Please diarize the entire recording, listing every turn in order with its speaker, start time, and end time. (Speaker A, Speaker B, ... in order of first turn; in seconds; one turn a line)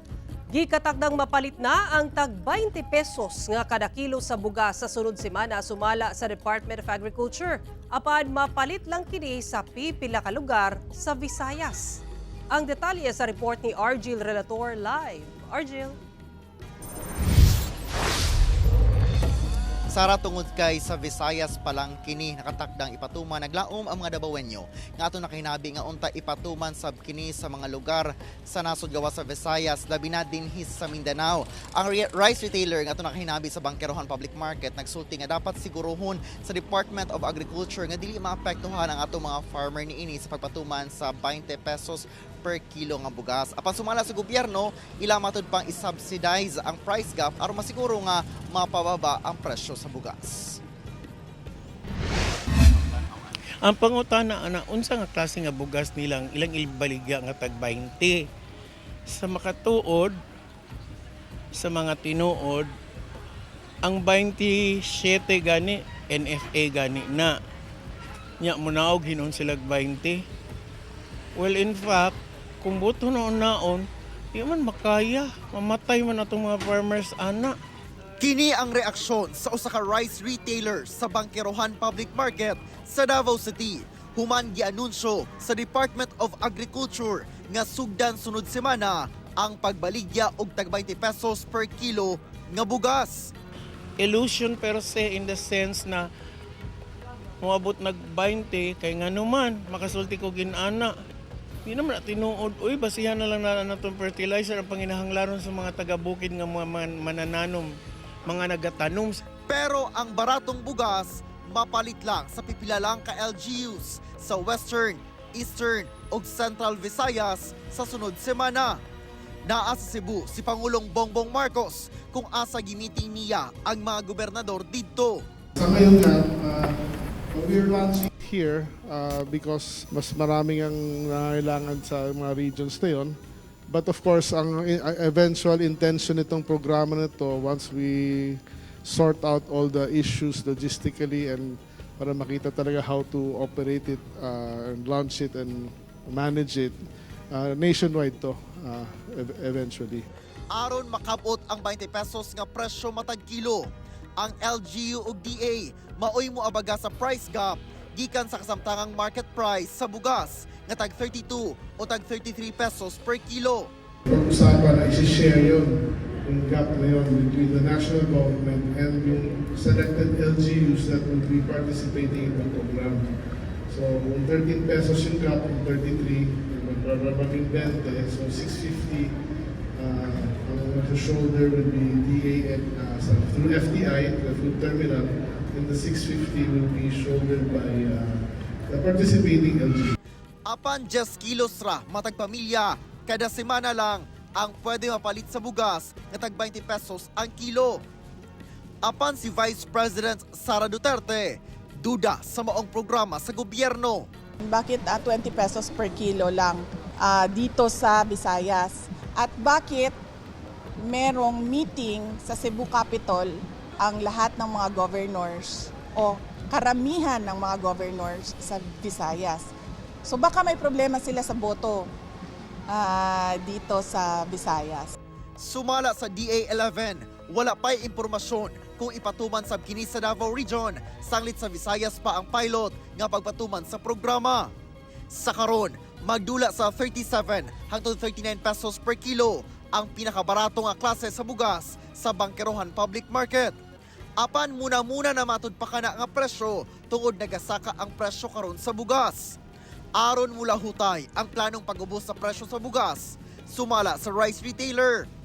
Speaker A: 0.5-15.9
Speaker B: 19.9-50.6
Speaker C: 53.6-58.2
Speaker C: 59.1-60.1
Speaker C: 61.5-62.7
Speaker C: 63.8-67.3
Speaker C: 68.4-70.2
Speaker C: 71.3-77.5
Speaker B: 78.2-93.3
Speaker C: 94.0-96.0
Speaker C: 97.4-100.9
Speaker C: 101.7-107.7
Speaker C: 108.3-109.2
Speaker B: 109.5-118.8
Speaker B: 119.5-125.2
Speaker D: 125.5-126.8
Speaker D: 127.3-133.2
Speaker D: 133.7-146.8
Speaker D: 147.3-150.1
Speaker B: 150.5-163.7
Speaker D: 164.1-173.1
Speaker D: 173.7-179.1
Speaker D: 179.7-189.9
Speaker B: 190.4-197.8
Speaker B: 198.8-204.1
Speaker E: 204.4-209.9
Speaker E: 210.8-219.5
Speaker E: 220.0-221.8
Speaker E: 222.7-224.9
Speaker B: 225.4-234.5
Speaker B: 235.1-243.5
Speaker B: 244.2-249.4
Speaker B: 249.9-255.1